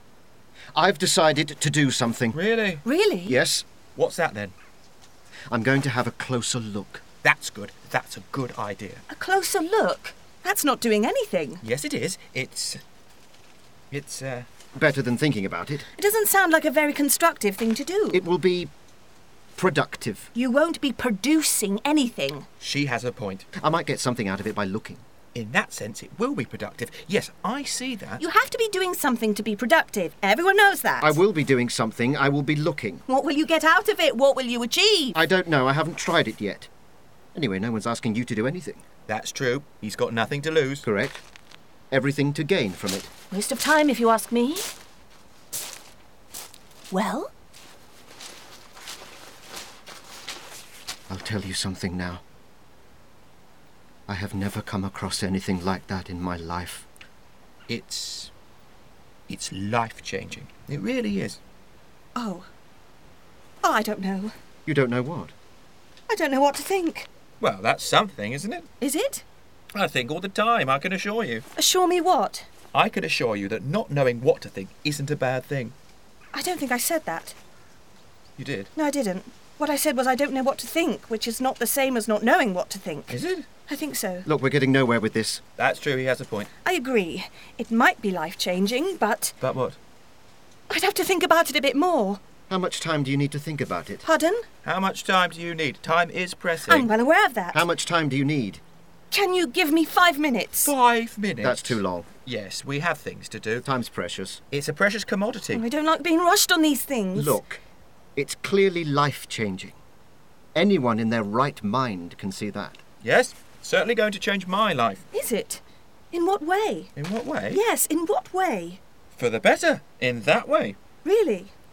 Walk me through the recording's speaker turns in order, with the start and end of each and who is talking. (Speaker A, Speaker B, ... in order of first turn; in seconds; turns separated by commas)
Speaker A: 0.7-2.4, Speaker B: 2.3-2.8, Speaker C: 2.9-3.4, Speaker A: 3.3-3.7, Speaker B: 4.0-4.5, Speaker A: 5.5-7.0, Speaker B: 7.2-9.0, Speaker C: 9.1-11.6, Speaker B: 11.6-12.8, Speaker B: 13.9-14.5, Speaker A: 14.8-15.9, Speaker C: 16.0-18.2, Speaker A: 18.1-18.7, Speaker A: 19.6-20.3, Speaker C: 20.4-22.5, Speaker B: 22.6-23.5, Speaker A: 23.6-25.0, Speaker B: 25.3-28.2, Speaker C: 28.2-31.2, Speaker A: 31.0-33.0, Speaker C: 33.1-35.2, Speaker A: 35.1-36.7, Speaker A: 37.3-38.9, Speaker B: 39.1-40.9, Speaker A: 40.8-41.2, Speaker A: 41.9-43.1, Speaker C: 43.3-44.7, Speaker C: 46.9-47.3, Speaker A: 51.1-52.2, Speaker A: 54.1-56.9, Speaker B: 57.7-58.3, Speaker B: 59.3-61.4, Speaker C: 62.1-62.5, Speaker C: 63.6-64.3, Speaker A: 64.7-65.3, Speaker C: 66.1-67.1, Speaker B: 67.4-68.7, Speaker C: 68.8-69.2, Speaker B: 69.7-71.5, Speaker C: 71.6-72.5, Speaker B: 72.7-75.7, Speaker C: 76.3-77.4, Speaker B: 78.4-78.7, Speaker C: 78.8-84.3, Speaker B: 83.1-83.5, Speaker A: 84.3-85.4, Speaker B: 85.6-86.5, Speaker C: 86.6-89.3, Speaker B: 89.4-89.8, Speaker C: 90.7-92.2, Speaker A: 92.5-94.0, Speaker C: 94.0-94.5, Speaker B: 94.6-96.9, Speaker C: 96.7-97.6, Speaker A: 97.5-98.6, Speaker C: 99.1-100.7, Speaker B: 100.7-103.7, Speaker A: 101.4-102.1, Speaker A: 103.7-104.4, Speaker B: 104.5-105.6, Speaker C: 105.5-107.4, Speaker A: 107.2-107.6, Speaker A: 108.2-109.8, Speaker A: 110.5-112.8, Speaker B: 113.0-115.1, Speaker C: 115.1-116.9, Speaker B: 117.0-117.6, Speaker C: 117.5-118.8, Speaker B: 119.2-120.8, Speaker C: 121.0-121.5